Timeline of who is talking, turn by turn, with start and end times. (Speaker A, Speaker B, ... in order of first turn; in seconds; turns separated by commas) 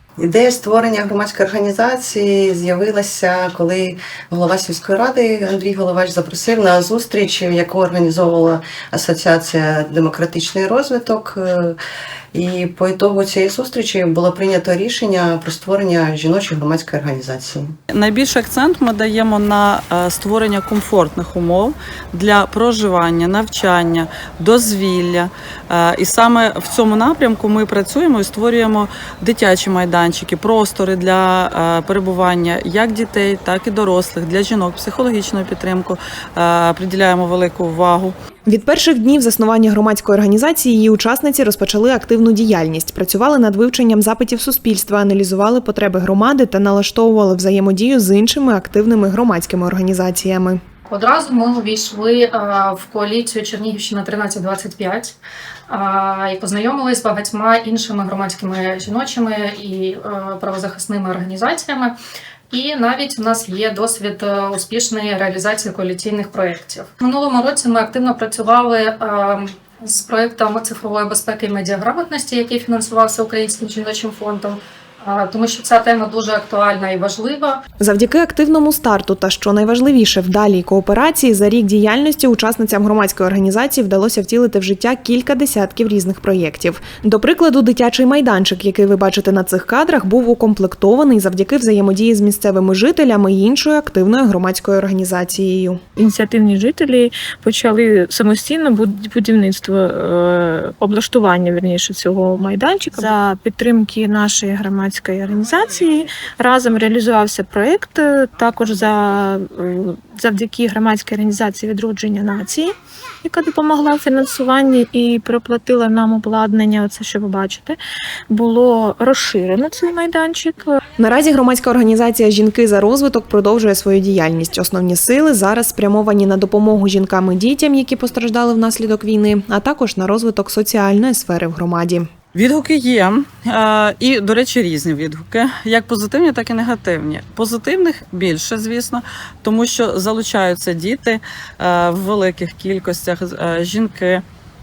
Speaker A: 0.2-11.8, Speaker A: 12.3-17.7, Speaker B: 17.9-38.1, Speaker C: 38.5-50.6, Speaker D: 50.9-55.2, Speaker D: 55.7-62.0, Speaker D: 62.5-77.6, Speaker C: 77.8-95.8, Speaker E: 96.0-117.8, Speaker E: 118.3-120.8, Speaker C: 121.0-132.1, Speaker B: 132.3-144.2